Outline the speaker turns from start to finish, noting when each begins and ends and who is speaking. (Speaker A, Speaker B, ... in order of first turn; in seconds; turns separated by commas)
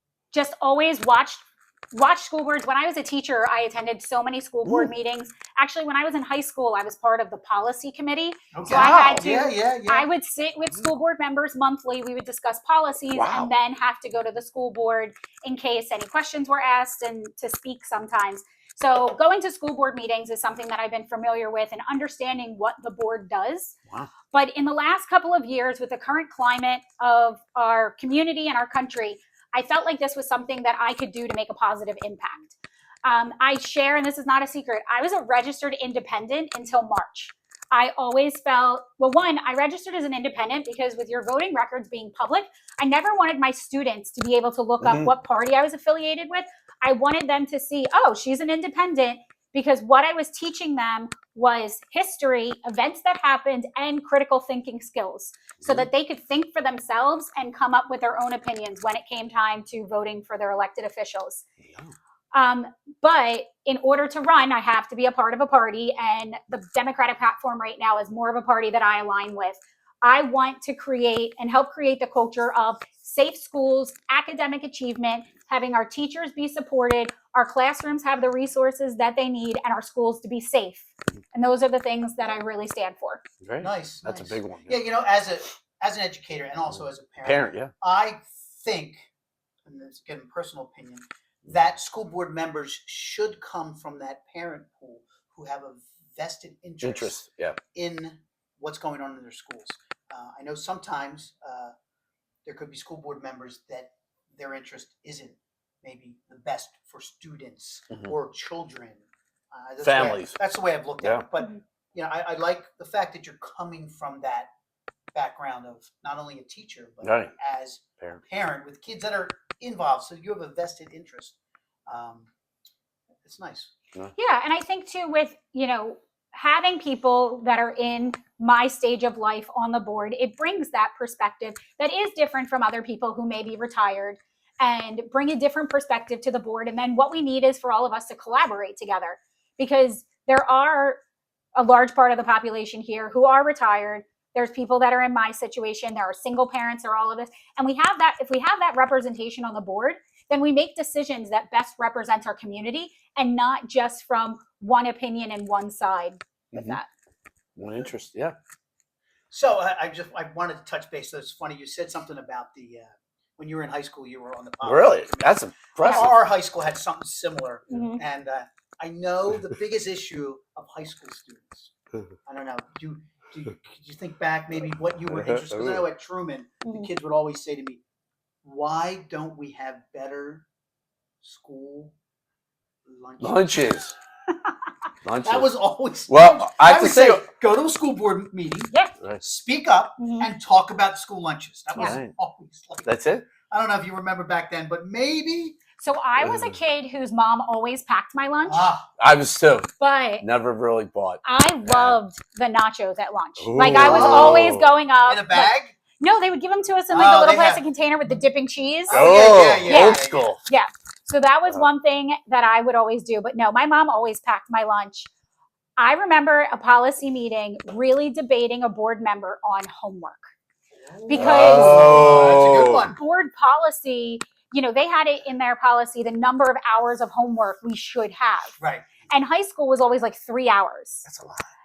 Speaker A: 0.3-23.8, Speaker B: 4.7-4.9, Speaker C: 8.5-10.1, Speaker B: 8.7-9.3, Speaker B: 13.1-13.5, Speaker A: 24.3-61.4, Speaker B: 44.8-45.1, Speaker B: 55.6-55.9, Speaker B: 61.6-61.9, Speaker A: 62.3-83.2, Speaker B: 83.4-84.8, Speaker C: 83.6-89.0, Speaker B: 87.2-87.7, Speaker C: 89.7-97.2, Speaker B: 96.8-97.6, Speaker C: 97.7-101.7, Speaker C: 102.4-114.5, Speaker B: 109.8-110.4, Speaker C: 115.1-121.3, Speaker B: 117.0-117.3, Speaker C: 121.9-122.3, Speaker C: 123.2-123.7, Speaker A: 124.1-141.0, Speaker A: 141.6-156.8, Speaker B: 156.5-156.8, Speaker B: 157.6-158.3, Speaker C: 159.3-171.7, Speaker B: 164.6-166.2, Speaker A: 167.7-168.0, Speaker C: 172.2-177.8, Speaker B: 175.1-175.8, Speaker A: 176.6-176.9, Speaker C: 178.4-180.4, Speaker C: 181.2-181.9, Speaker C: 182.9-183.8, Speaker B: 183.2-183.9, Speaker B: 185.0-185.5, Speaker C: 185.2-195.6, Speaker B: 186.1-187.2, Speaker A: 190.0-190.3, Speaker B: 191.8-192.1, Speaker B: 192.8-193.3, Speaker A: 195.8-198.7, Speaker C: 198.4-198.9, Speaker B: 199.0-199.7, Speaker A: 199.8-200.2, Speaker B: 200.2-202.0, Speaker A: 201.2-209.0, Speaker B: 203.4-204.7, Speaker C: 203.6-205.7, Speaker C: 206.9-207.6, Speaker C: 208.9-210.4, Speaker B: 208.9-210.4, Speaker A: 209.6-215.1, Speaker A: 215.8-220.2, Speaker C: 220.8-223.0, Speaker A: 221.1-222.1, Speaker B: 221.1-222.9, Speaker A: 222.7-228.5, Speaker C: 228.6-229.0, Speaker A: 229.1-231.1, Speaker B: 231.1-231.4